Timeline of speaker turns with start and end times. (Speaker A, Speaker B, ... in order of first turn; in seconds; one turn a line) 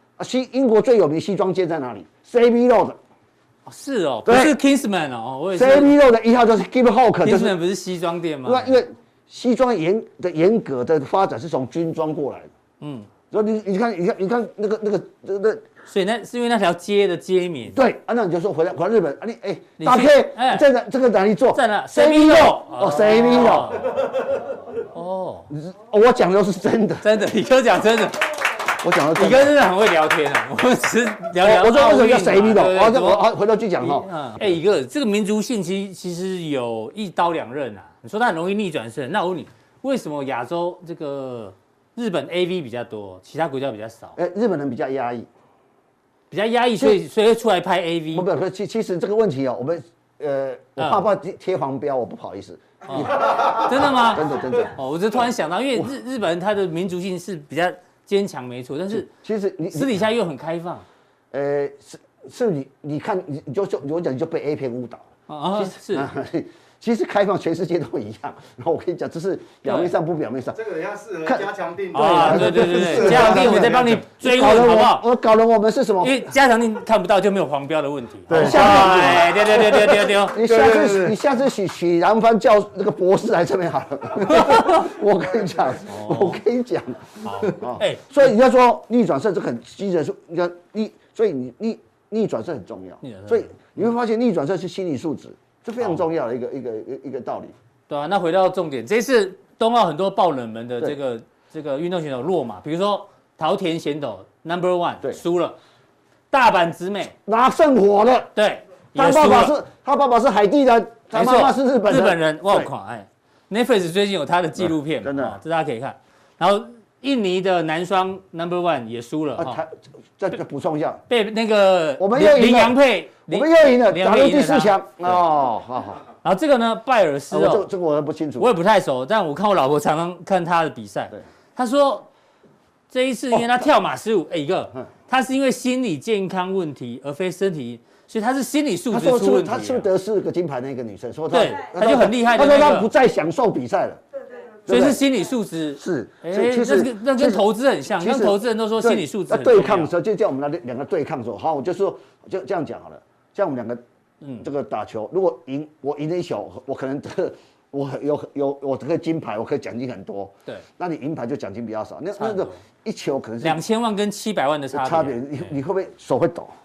Speaker A: 0.2-3.0
Speaker B: 3.6-5.9
Speaker A: 4.2-4.6
Speaker A: 5.5-7.6
Speaker B: 7.2-8.8
Speaker A: 8.4-12.5
Speaker B: 12.8-13.1
Speaker A: 13.3-15.6
Speaker B: 15.8-17.8
Speaker A: 17.7-23.9
Speaker B: 19.8-20.6
Speaker B: 21.5-24.1
Speaker B: 24.9-25.5
Speaker A: 25.5-27.1
Speaker B: 27.0-28.4
Speaker A: 28.8-29.5
Speaker B: 29.1-33.3
Speaker A: 31.4-34.1
Speaker B: 33.8-44.2
Speaker A: 44.1-45.3
Speaker B: 46.3-48.2
Speaker A: 48.1-54.8
Speaker B: 50.8-51.0
Speaker B: 52.9-59.1
Speaker A: 58.9-60.0
Speaker B: 59.7-60.9
Speaker A: 61.3-70.6
Speaker B: 65.3-66.1
Speaker B: 69.6-69.9
Speaker C: 70.5-74.0
Speaker B: 71.9-75.1
Speaker A: 72.0-76.3
Speaker B: 76.0-80.4
Speaker C: 78.3-81.2
Speaker A: 78.3-79.7
Speaker A: 80.2-97.5
Speaker B: 84.3-84.8
Speaker B: 85.8-86.4
Speaker B: 87.2-88.1
Speaker B: 93.0-93.8
Speaker B: 97.9-105.5
Speaker B: 106.3-107.1
Speaker A: 107.2-108.3
Speaker B: 108.3-109.6
Speaker A: 108.9-112.7
Speaker B: 111.1-119.6
Speaker A: 114.6-115.4
Speaker A: 119.3-121.0
Speaker B: 121.1-124.8
Speaker A: 122.0-126.0
Speaker B: 126.2-127.7
Speaker A: 127.3-128.5
Speaker B: 128.4-132.1
Speaker B: 132.9-139.9
Speaker A: 138.9-144.0
Speaker B: 141.3-142.9
Speaker A: 144.6-145.0
Speaker B: 144.7-149.9
Speaker A: 145.8-153.8
Speaker B: 154.2-154.5
Speaker A: 154.4-163.6
Speaker B: 162.2-162.6
Speaker B: 163.4-165.5
Speaker A: 164.7-166.5